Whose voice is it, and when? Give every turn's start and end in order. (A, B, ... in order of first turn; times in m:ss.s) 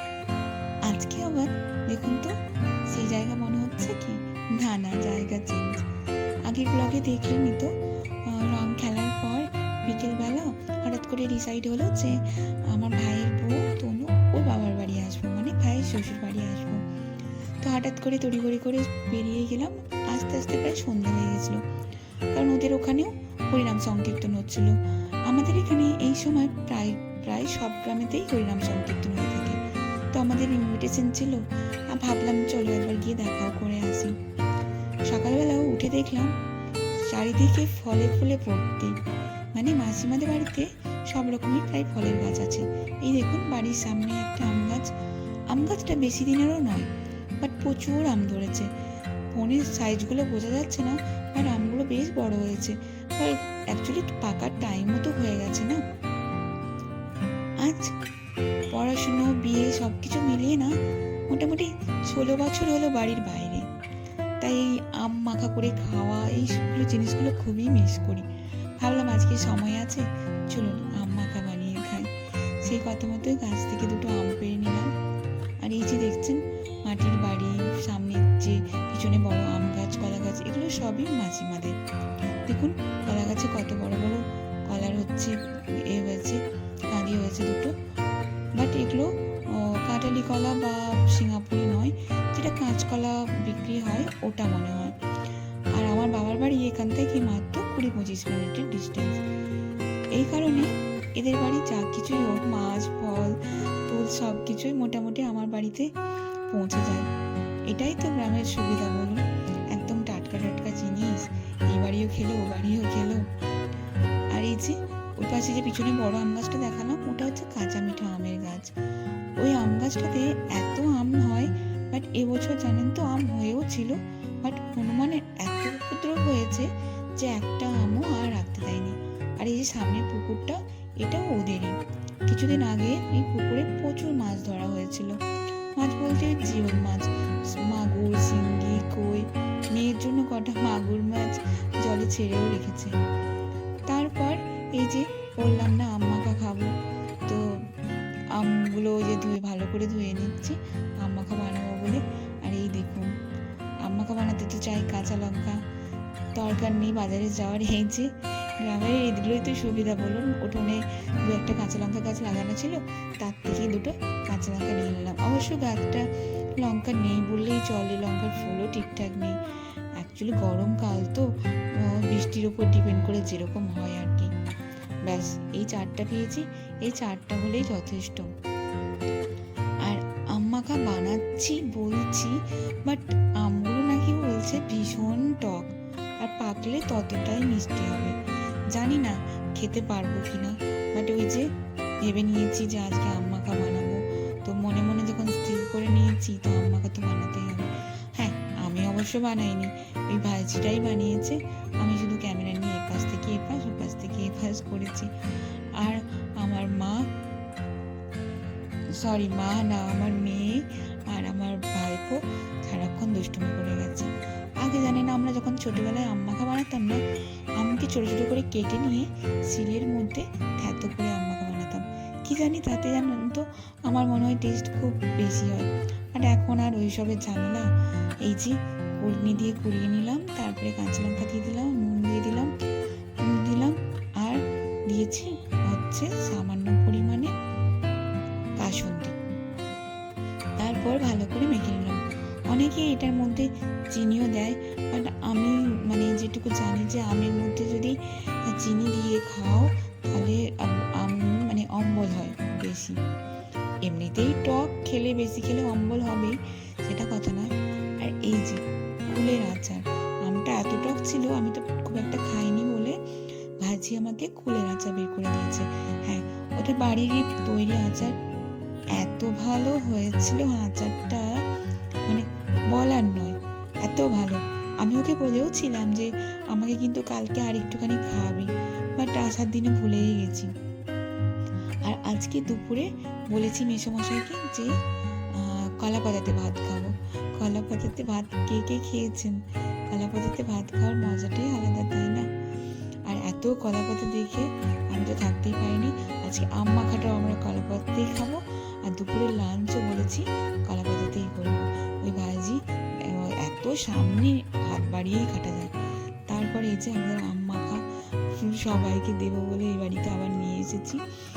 0:00.8-0:05.8 A
0:06.4-0:07.7 A
0:08.2-0:16.8 A
0:17.6-0:21.6 A
0:22.3-0:29.6 A
0:30.1-0:34.2 A
0:35.1-0:36.3 A
0:37.0-0:39.0 A
0:39.5-0:44.9 A
0:45.5-0:46.9 A
0:47.4-0:48.7 A
0:49.3-0:55.8 A
0:57.6-0:57.9 A
0:58.7-1:00.8 A
1:01.3-1:03.7 A
1:04.4-1:14.9 A
1:15.6-1:21.8 A
1:22.4-1:27.8 A
1:28.6-1:35.0 A
1:35.8-1:39.2 A
1:40.1-1:45.9 A
1:46.5-1:47.1 A
1:47.7-1:53.3 A
1:54.3-1:58.7 A
1:59.4-2:15.2 A
2:15.8-2:23.0 A
2:23.9-2:26.7 A
2:27.3-2:27.6 A
2:28.3-2:33.1 A
2:33.8-2:35.6 A
2:36.4-2:49.4 A
2:50.0-2:54.3 A
2:55.0-2:58.3 A
2:59.8-3:08.2 A
3:08.7-3:11.5 A
3:12.0-3:25.1 A
3:25.7-3:27.1 A
3:29.0-3:37.0 A
3:37.6-3:47.7 A
3:48.2-3:52.5 A
3:53.2-3:57.3 A
3:58.6-3:59.2 A
4:00.6-4:13.0 A
4:13.8-4:17.5 A
4:18.0-4:23.0 A
4:23.6-4:28.2 A
4:29.0-4:31.4 A
4:32.1-4:40.5 A
4:41.8-4:44.7 A
4:45.3-4:52.3 A
4:53.1-5:05.7 A
5:06.3-5:11.0 A